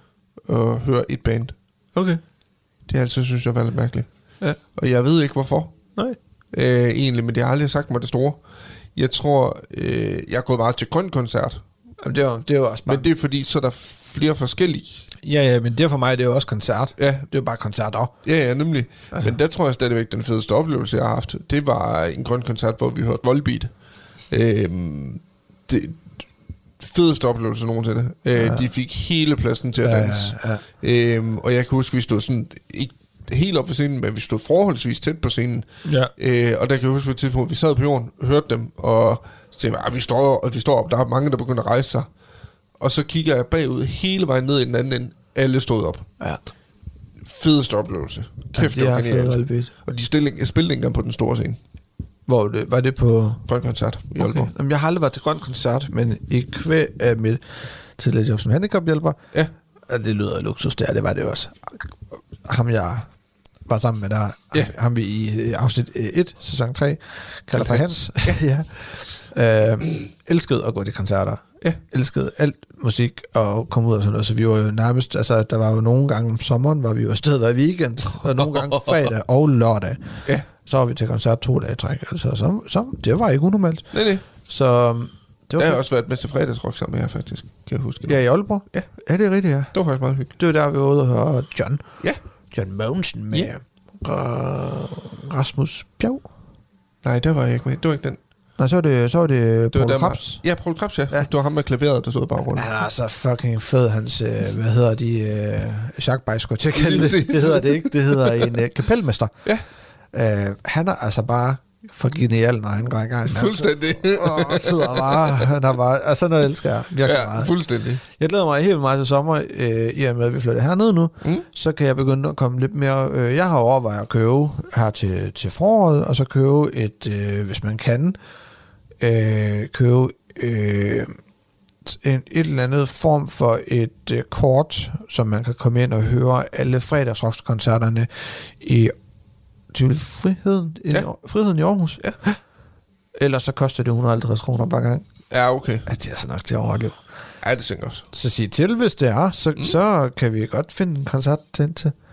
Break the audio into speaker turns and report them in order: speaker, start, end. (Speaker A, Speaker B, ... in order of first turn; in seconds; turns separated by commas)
Speaker A: 0.5-1.5, Speaker B: 1.9-2.2, Speaker A: 2.9-4.1, Speaker A: 4.8-5.8, Speaker A: 6.5-8.4, Speaker A: 8.9-11.6, Speaker B: 12.0-13.1, Speaker A: 12.9-15.1, Speaker B: 15.2-18.1, Speaker A: 17.0-17.3, Speaker A: 18.2-23.7, Speaker A: 24.3-26.0, Speaker A: 26.8-42.1, Speaker B: 28.3-28.7, Speaker B: 29.8-30.6, Speaker B: 35.9-36.1, Speaker A: 42.8-46.1, Speaker A: 47.2-51.6, Speaker B: 48.5-49.7, Speaker B: 52.3-53.5, Speaker A: 53.5-54.5, Speaker B: 54.2-59.2, Speaker B: 59.9-63.1, Speaker B: 63.7-85.8, Speaker A: 67.6-68.4, Speaker A: 78.4-79.0, Speaker A: 83.9-84.2, Speaker A: 85.6-88.9, Speaker B: 88.1-89.7, Speaker A: 89.7-90.3, Speaker B: 90.4-91.8, Speaker B: 92.5-96.3, Speaker A: 97.0-98.2, Speaker B: 98.6-100.4, Speaker A: 99.7-102.8, Speaker B: 102.5-109.5, Speaker A: 106.7-108.6, Speaker B: 110.1-117.5, Speaker A: 113.3-115.6, Speaker A: 117.0-118.0, Speaker B: 118.1-128.2, Speaker B: 129.0-131.1, Speaker B: 131.8-138.9, Speaker B: 139.7-142.4, Speaker B: 143.2-145.1, Speaker A: 145.3-145.8, Speaker B: 145.8-147.0, Speaker A: 147.4-148.1, Speaker B: 148.1-151.9